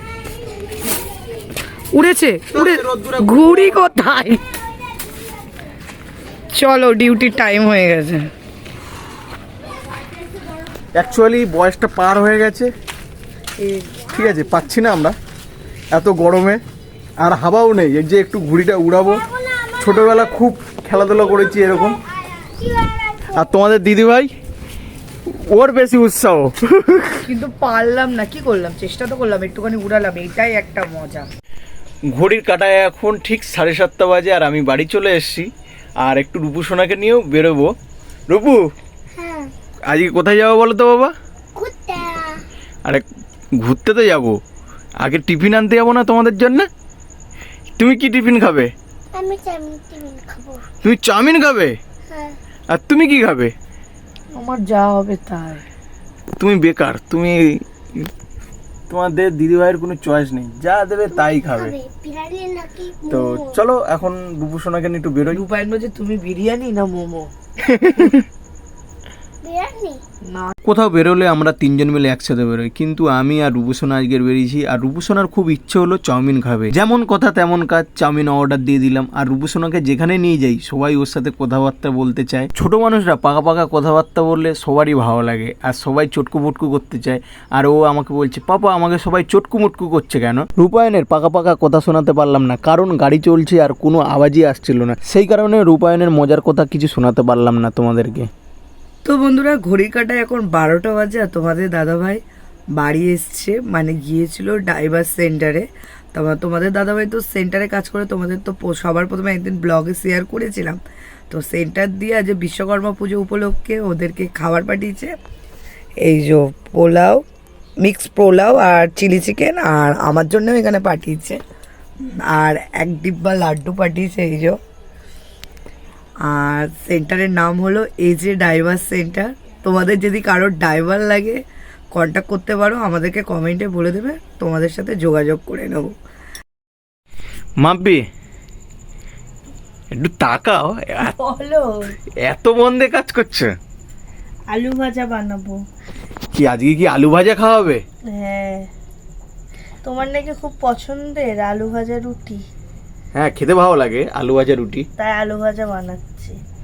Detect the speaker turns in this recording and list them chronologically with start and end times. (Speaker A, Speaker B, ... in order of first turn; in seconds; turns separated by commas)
Speaker A: 1.9-4.4, Speaker B: 2.5-3.9, Speaker A: 6.5-8.3, Speaker B: 10.9-12.7, Speaker A: 13.6-13.9, Speaker B: 14.1-15.2, Speaker B: 15.9-16.6, Speaker B: 17.2-19.2, Speaker C: 19.0-20.3, Speaker B: 19.8-22.0, Speaker C: 21.4-23.5, Speaker B: 23.3-24.3, Speaker B: 25.3-27.3, Speaker A: 27.2-31.3, Speaker B: 32.1-35.5, Speaker B: 36.0-37.7, Speaker B: 38.3-38.6, Speaker C: 39.1-39.5, Speaker B: 39.9-41.1, Speaker C: 41.5-42.4, Speaker B: 43.6-44.4, Speaker B: 45.0-46.7, Speaker B: 47.8-48.7, Speaker C: 49.1-50.6, Speaker B: 50.8-51.8, Speaker C: 52.1-52.4, Speaker B: 52.7-53.5, Speaker A: 54.3-55.6, Speaker B: 56.4-58.1, Speaker B: 58.9-61.7, Speaker C: 61.1-63.6, Speaker B: 63.1-65.4, Speaker A: 65.3-67.3, Speaker B: 67.7-68.2, Speaker C: 69.4-70.0, Speaker A: 70.3-70.5, Speaker B: 70.6-98.3, Speaker A: 99.0-102.2, Speaker A: 102.8-115.1, Speaker A: 116.0-117.2, Speaker A: 117.8-121.4, Speaker A: 122.2-124.6, Speaker A: 126.2-131.4, Speaker A: 131.9-135.9, Speaker B: 137.6-138.0, Speaker B: 139.9-141.2, Speaker D: 141.2-141.9, Speaker B: 142.2-143.5, Speaker D: 144.5-145.6, Speaker B: 146.3-147.8, Speaker D: 148.1-148.7, Speaker D: 149.8-152.4, Speaker B: 153.1-154.8, Speaker D: 155.0-156.4